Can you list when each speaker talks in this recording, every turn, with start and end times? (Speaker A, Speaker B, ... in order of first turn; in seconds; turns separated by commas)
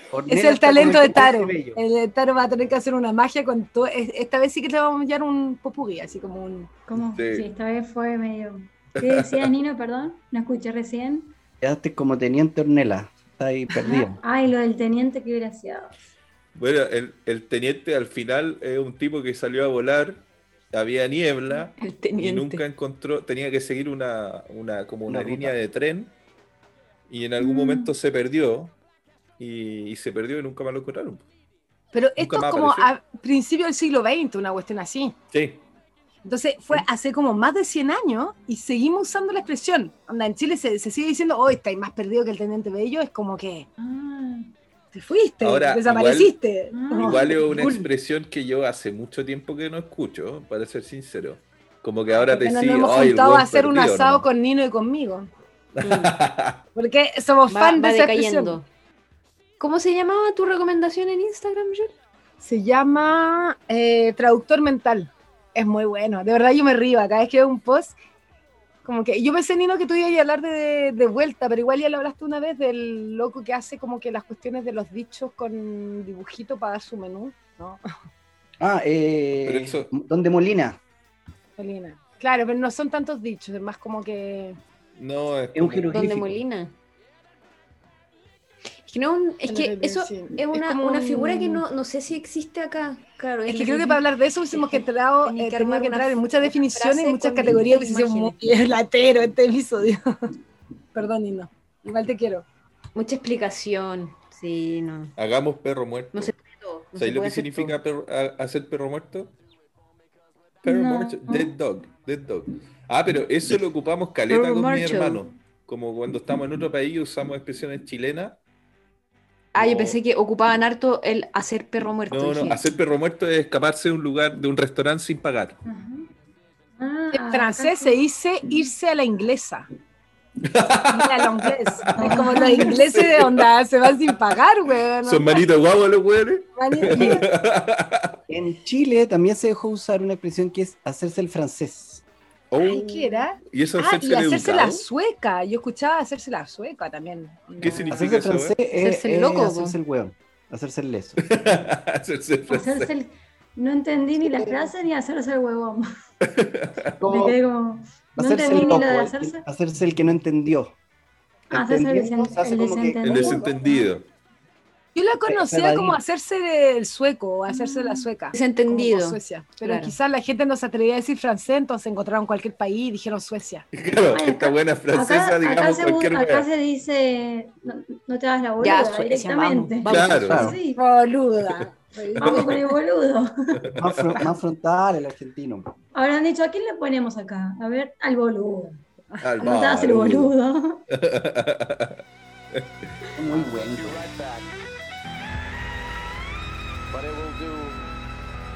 Speaker A: 0.1-1.8, Speaker B: 0.3-6.7, Speaker C: 6.9-11.3, Speaker D: 7.0-7.5, Speaker D: 9.0-9.5, Speaker A: 11.6-14.2, Speaker C: 13.8-15.9, Speaker D: 16.6-26.1, Speaker E: 21.8-22.6, Speaker A: 25.1-25.6, Speaker D: 27.1-28.8, Speaker C: 27.4-27.9, Speaker D: 29.4-31.2, Speaker B: 31.9-35.2, Speaker D: 32.2-32.9, Speaker D: 35.3-35.6, Speaker B: 36.2-43.7, Speaker C: 43.8-44.5, Speaker B: 44.9-47.8, Speaker D: 45.4-46.4, Speaker C: 46.7-47.4, Speaker D: 47.0-54.3, Speaker A: 47.6-47.9, Speaker B: 52.1-55.3, Speaker D: 55.8-56.6, Speaker E: 55.8-56.2, Speaker B: 56.8-58.6, Speaker E: 57.5-58.7, Speaker E: 59.6-61.9, Speaker B: 62.4-68.0, Speaker B: 68.8-77.8, Speaker A: 78.6-80.8, Speaker D: 79.4-79.9, Speaker B: 81.6-84.6, Speaker D: 85.0-86.0, Speaker A: 85.5-86.4, Speaker E: 85.9-86.8, Speaker E: 88.8-98.4, Speaker B: 89.5-91.6, Speaker B: 93.5-100.0, Speaker B: 101.0-102.4, Speaker E: 103.0-105.1, Speaker D: 105.2-106.3, Speaker E: 106.1-107.8, Speaker D: 107.0-109.3, Speaker D: 110.6-118.4, Speaker C: 110.7-111.5, Speaker E: 114.3-115.2, Speaker E: 119.5-122.7, Speaker D: 119.5-120.0, Speaker D: 122.1-125.6, Speaker C: 125.7-126.1, Speaker C: 126.8-128.1, Speaker B: 127.1-129.7, Speaker D: 130.4-132.1, Speaker B: 130.9-135.5, Speaker C: 131.9-132.8, Speaker D: 132.7-133.5, Speaker D: 135.0-138.1, Speaker B: 136.6-137.2, Speaker A: 136.9-137.2, Speaker A: 138.3-142.0, Speaker D: 142.5-144.9, Speaker B: 142.6-148.2, Speaker D: 147.6-148.6, Speaker A: 147.9-151.2, Speaker E: 148.8-149.8, Speaker D: 151.2-152.9, Speaker C: 152.5-155.8, Speaker A: 154.2-154.7, Speaker D: 156.3-156.7, Speaker A: 157.0-157.4, Speaker C: 157.1-159.4, Speaker A: 158.2-160.7, Speaker A: 161.5-163.5, Speaker C: 161.5-163.9, Speaker D: 163.0-164.1, Speaker B: 164.9-173.7, Speaker A: 165.3-166.0, Speaker C: 167.5-168.1, Speaker E: 168.3-170.0, Speaker D: 173.7-176.5, Speaker C: 174.1-180.8, Speaker E: 178.6-180.6, Speaker D: 179.9-180.5, Speaker A: 180.3-180.6, Speaker B: 180.8-182.6, Speaker C: 182.2-183.5, Speaker D: 183.6-183.9, Speaker A: 183.8-185.7, Speaker C: 185.9-188.8, Speaker B: 189.1-189.5, Speaker D: 189.2-190.3, Speaker C: 189.4-190.8, Speaker D: 190.9-191.9, Speaker A: 193.2-194.0, Speaker F: 193.3-194.5, Speaker F: 196.9-197.8